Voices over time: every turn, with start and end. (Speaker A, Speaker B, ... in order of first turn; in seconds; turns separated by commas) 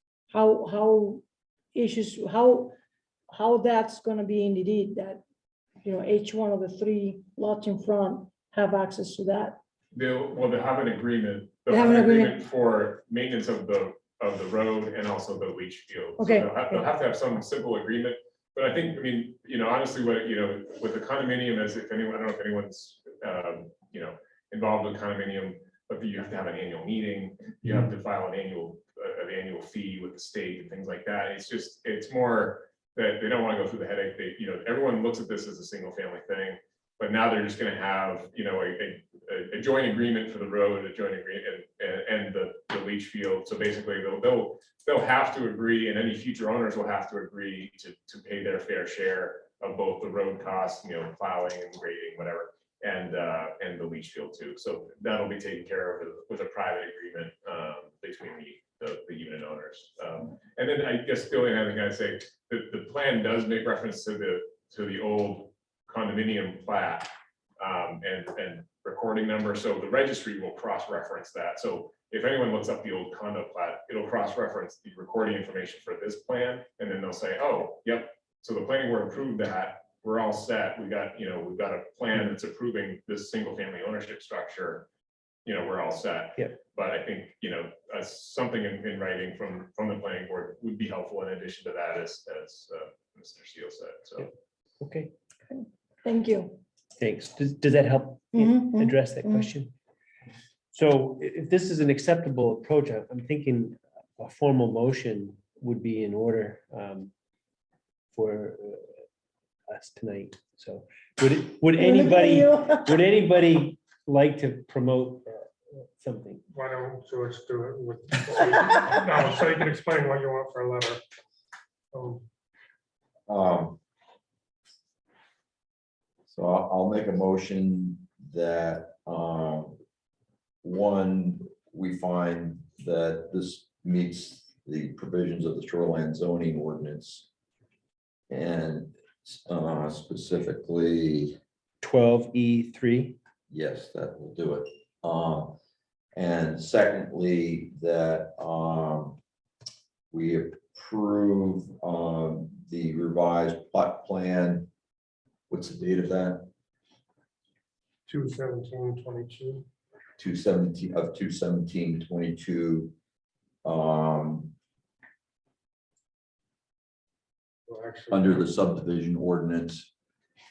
Speaker A: 0.3-1.2, Speaker A: 1.7-2.7, Speaker A: 3.3-5.2, Speaker A: 5.8-9.6, Speaker B: 9.9-84.9, Speaker A: 11.7-12.4, Speaker A: 16.2-16.9, Speaker B: 85.4-94.3, Speaker C: 94.8-95.1, Speaker A: 95.5-96.6, Speaker C: 97.0-99.7, Speaker A: 98.3-99.5, Speaker C: 100.7-107.1, Speaker C: 108.1-108.9, Speaker C: 109.7-116.4, Speaker A: 111.8-113.0, Speaker D: 116.5-121.0, Speaker D: 121.9-122.2, Speaker E: 123.3-123.8, Speaker E: 126.3-129.8, Speaker E: 130.6-137.3, Speaker E: 138.3-141.4, Speaker C: 141.8-143.2, Speaker E: 143.5-145.6, Speaker E: 146.1-149.2, Speaker E: 150.1-154.7, Speaker E: 155.5-156.5, Speaker D: 158.1-159.7, Speaker E: 160.2-162.9, Speaker E: 163.6-164.5, Speaker D: 167.7-168.5, Speaker E: 168.1-169.9